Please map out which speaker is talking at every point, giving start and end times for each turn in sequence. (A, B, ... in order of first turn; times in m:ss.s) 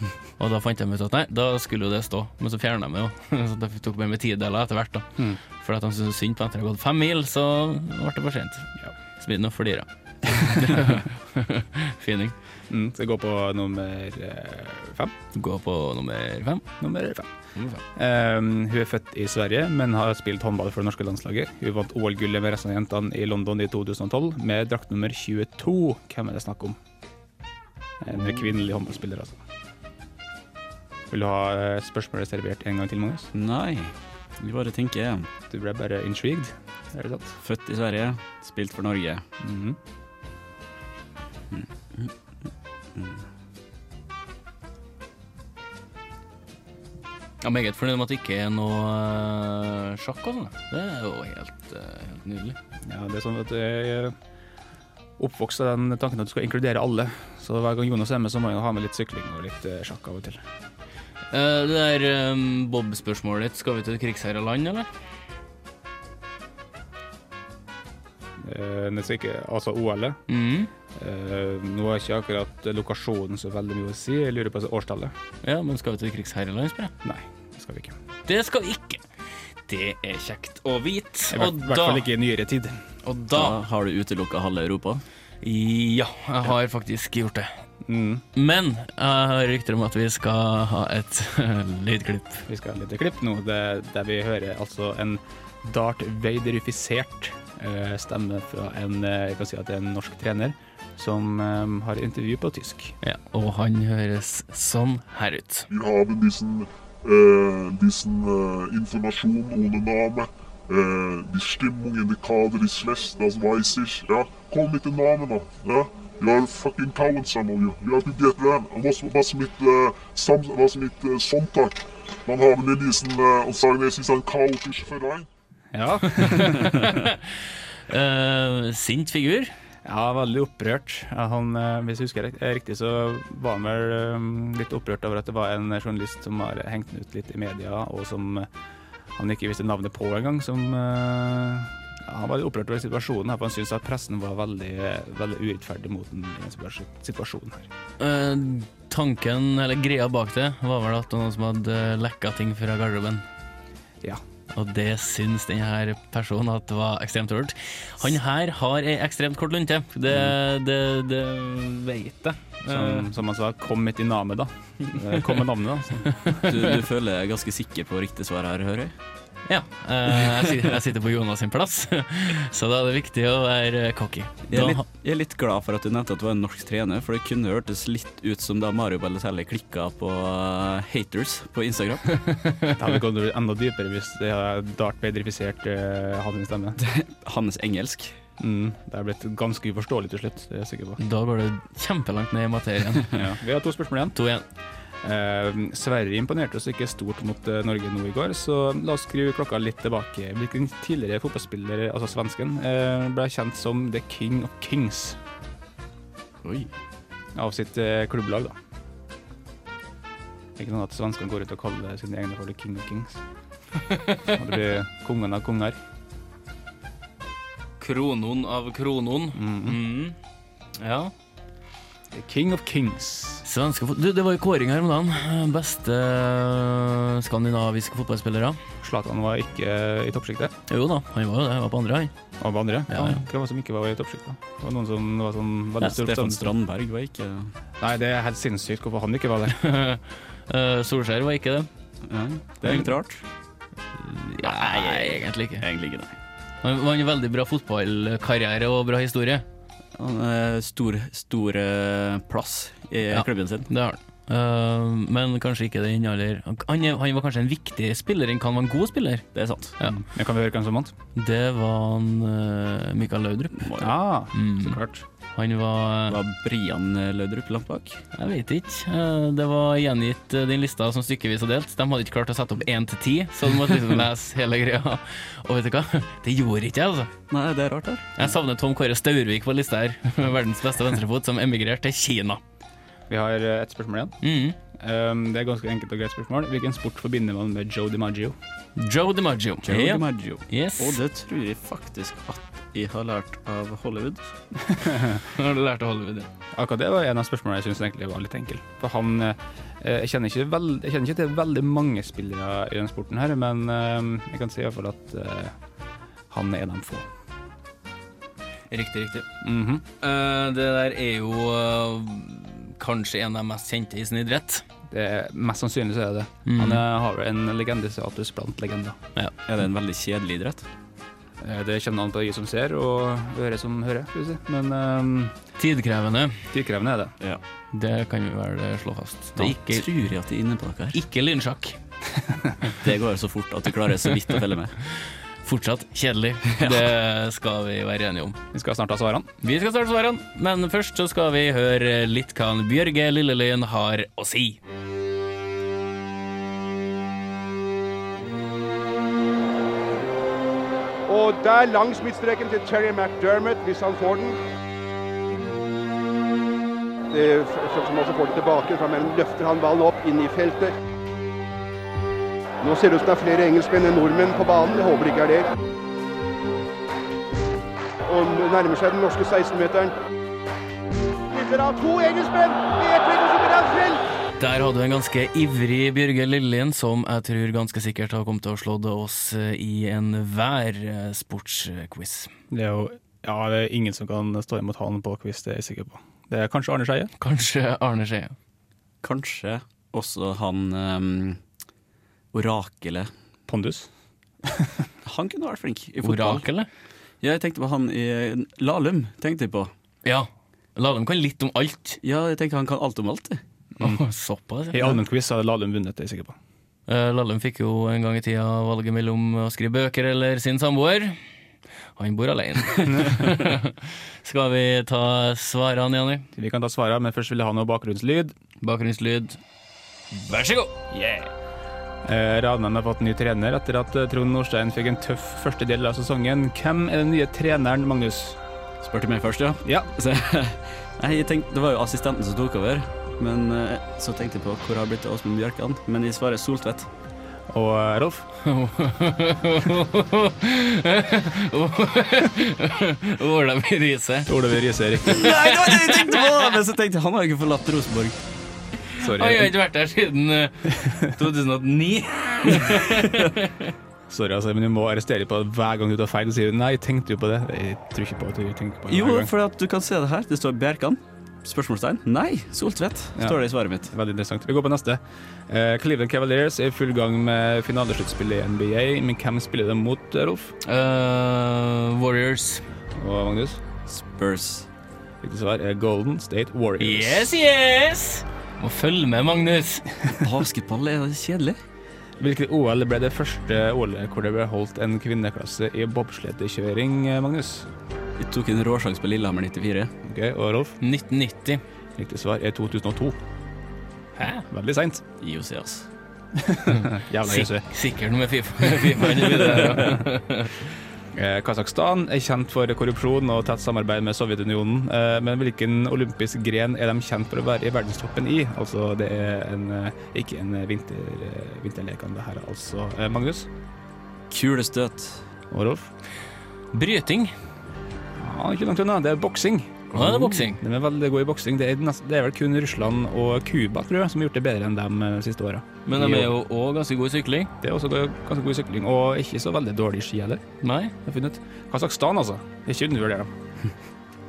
0:00.4-0:12.4 A
0:12.7-0:15.1 B
0:15.3-0:16.6 A
0:16.8-0:17.3 B
0:17.8-0:26.8 B
0:28.0-0:29.4 B
0:31.1-0:33.3 B
0:33.3-0:35.3 C
0:35.5-0:37.4 B
0:37.4-0:39.2 C
0:39.4-0:39.8 B
0:41.5-0:42.1 C
0:43.0-0:43.2 C
0:47.4-0:52.6 A
0:52.8-0:54.2 B
0:55.2-1:00.4 B
1:01.3-1:04.9 A
1:08.4-1:10.2 B
1:10.3-1:10.7 A
1:10.9-1:15.1 B
1:15.4-1:16.9 A
1:17.0-1:18.0 B
1:18.3-1:19.0 A
1:19.7-1:22.0 A
1:21.3-1:22.8 B
1:23.0-1:23.6 A
1:23.3-1:25.0 C
1:25.4-1:27.5 A
1:27.8-1:28.2 B
1:28.4-1:32.4 A
1:32.5-1:43.0 B
1:43.0-1:45.7 A
1:45.7-2:05.3 D
2:05.7-2:06.8 B
2:06.1-2:09.5 A
2:09.8-2:18.5 B
2:19.2-2:27.7 B
2:28.0-2:33.2 A
2:34.5-2:43.1 A
2:42.7-2:46.1 B
2:46.5-2:49.0 C
2:49.5-2:54.8 A
2:54.5-3:02.1 C
3:02.2-3:02.8 A
3:02.8-3:06.8 B
3:06.8-3:08.2 C
3:08.4-3:11.0 B
3:11.0-3:13.2 A
3:13.1-3:14.2 B
3:14.2-3:14.4 A
3:15.0-3:25.2 B
3:26.4-3:26.7 C
3:27.4-3:28.6 B
3:30.6-3:33.2 B
3:33.9-3:34.4 A
3:34.4-3:35.8 B
3:37.8-3:40.2 A
3:39.4-3:39.8 B
3:40.8-3:41.1 A
3:42.1-3:43.4 B
3:43.4-3:48.6 A
3:48.8-3:50.5 B
3:50.7-3:52.1 A
3:52.4-3:56.5 B
3:52.9-3:53.2 A
3:55.8-3:57.5 C
3:57.8-3:59.6 B
3:59.6-4:01.7 A
4:02.1-4:03.2 C
4:04.0-4:05.6 A
4:04.4-4:06.1 C
4:06.6-4:09.4 A
4:10.0-4:13.7 C
4:13.1-4:19.3 A
4:19.3-4:19.8 C
4:19.8-4:20.9 B
4:21.2-4:23.7 A
4:23.6-4:23.9 C
4:23.8-4:25.0 B
4:24.3-4:24.8 A
4:25.3-4:26.2 A
4:26.1-4:28.0 C
4:28.1-4:37.1 A
4:37.3-4:38.3 C
4:38.2-4:42.4 A
4:43.1-4:44.2 B
4:44.2-4:44.6 A
4:44.8-4:48.4 B
4:48.8-4:51.0 A
4:49.6-4:54.4 C
4:54.8-4:55.2 B
4:55.3-4:56.3 A
4:56.5-5:05.6 B
5:06.3-5:07.1 B
5:08.7-5:09.3 A
5:09.4-5:09.8 B
5:10.0-5:14.6 A
5:14.9-5:19.0 B
5:16.5-5:16.8 A
5:19.5-5:20.7 C
5:21.4-5:25.4 B
5:25.6-5:26.4 A
5:26.5-5:27.2 B
5:27.7-5:29.9 A
5:29.4-5:31.0 C
5:30.9-5:31.8 A
5:32.2-5:32.6 B
5:32.8-5:34.8 C
5:34.9-5:38.4 A
5:36.6-5:36.9 C
5:38.5-5:39.3 B
5:39.4-5:44.6 A
5:51.1-5:54.4 E
5:57.1-6:00.8 E
6:02.6-6:05.5 E
6:08.1-6:09.9 E
6:11.3-6:14.0 E
6:14.4-6:22.3 A
6:22.5-6:27.1 B
6:27.2-6:28.4 A
6:29.0-6:31.4 C
6:32.3-6:33.1 C
6:33.5-6:33.9 B
6:34.4-6:34.9 B
6:35.0-6:36.5 C
6:36.0-6:36.7 A
6:37.2-6:39.7 C
6:40.0-6:42.0 A
6:42.0-6:43.4 C
6:43.8-6:45.0 A
6:44.7-6:46.4 B
6:46.9-6:51.2 A
6:52.0-6:56.3 A
6:56.4-6:58.4 B
6:58.6-6:59.4 A
7:00.1-7:00.7 A
7:00.9-7:01.3 B
7:02.0-7:08.4 B
7:08.8-7:16.9 C
7:09.6-7:09.9 B
7:17.5-7:18.3 B
7:18.4-7:24.3 A
7:24.3-7:25.3 B
7:25.0-7:26.5 A
7:25.1-7:28.2 C
7:29.0-7:33.7 A
7:29.0-7:29.5 B
7:34.1-7:39.3 B
7:38.9-7:43.9 C
7:43.2-7:50.6 B
7:50.6-7:52.6 A
7:52.9-7:53.6 B
7:53.9-7:54.7 C
7:55.2-7:57.3 B
7:56.8-7:59.9 A
8:00.2-8:01.6 C
8:02.2-8:07.7 B
8:08.2-8:09.9 C
8:10.0-8:10.8 B
8:10.8-8:11.6 A
8:12.0-8:13.2 B
8:14.2-8:14.5 A
8:14.5-8:15.0 B
8:15.2-8:15.9 C
8:16.4-8:17.7 B
8:17.3-8:20.6 A
8:18.8-8:19.7 C
8:21.1-8:33.5 B
8:34.3-8:35.2 C
8:35.5-8:35.9 B
8:36.7-8:37.3 A
8:38.2-8:46.3 B
8:39.9-8:40.4 C
8:39.9-8:40.6 A
8:45.9-8:47.5 A
8:47.6-8:50.4 B
8:50.6-8:51.0 A
8:51.0-8:53.3 B